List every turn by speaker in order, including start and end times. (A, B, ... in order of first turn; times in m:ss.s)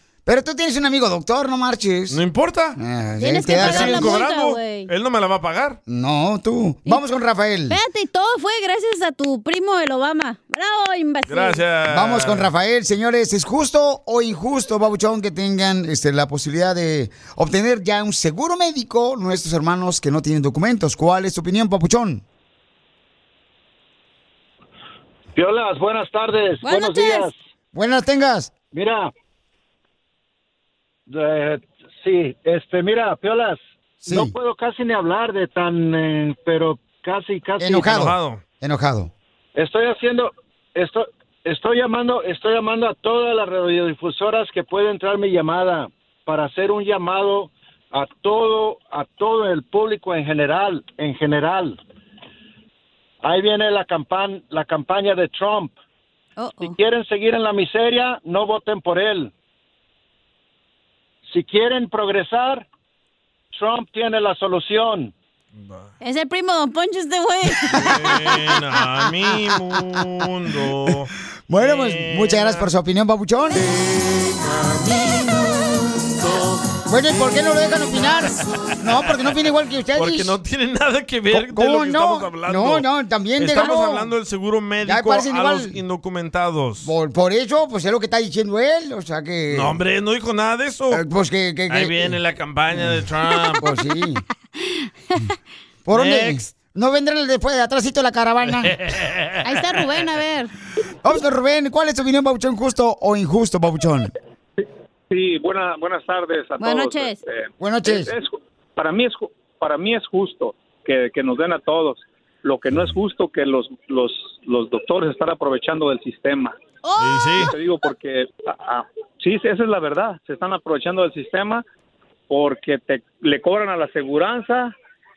0:00.2-0:02.2 A
0:02.1-0:02.8 B
0:02.8-0:04.2 A
0:03.2-0:04.9 C
0:03.6-0:05.8 B
0:05.9-0:07.8 A
0:07.7-0:11.6 C
0:11.3-0:12.5 B
0:11.9-0:22.2 A
0:25.3-0:27.3 D
0:26.6-0:27.3 C
0:27.7-0:28.5 A
0:28.7-0:29.1 D
0:31.1-0:37.9 D
0:34.0-0:34.3 A
0:37.6-0:39.1 A
0:37.8-0:38.4 B
0:39.6-0:51.8 D
0:53.2-0:55.7 D
0:56.4-0:56.7 C
0:56.6-0:59.3 D
1:01.3-1:02.6 D
1:03.5-1:05.1 D
1:05.6-1:05.9 B
1:06.0-1:07.9 C
1:07.8-1:12.6 B
1:11.5-1:13.7 A
1:14.6-1:15.8 A
1:16.8-1:20.3 A
1:20.0-1:26.9 B
1:21.3-1:24.1 A
1:24.8-1:25.8 A
1:26.8-1:29.8 A
1:29.5-1:31.0 B
1:30.9-1:32.2 A
1:31.7-1:33.7 B
1:32.7-1:33.0 A
1:33.6-1:34.2 A
1:34.6-1:34.9 C
1:35.8-1:38.8 A
1:35.9-1:36.5 B
1:38.6-1:39.4 B
1:39.4-1:40.5 C
1:41.0-1:44.1 A
1:44.6-1:56.5 E
1:46.6-1:47.2 C
1:47.6-1:48.1 A
1:56.8-1:57.5 C
1:57.0-1:57.5 B
1:57.4-2:01.6 E
2:02.3-2:04.7 E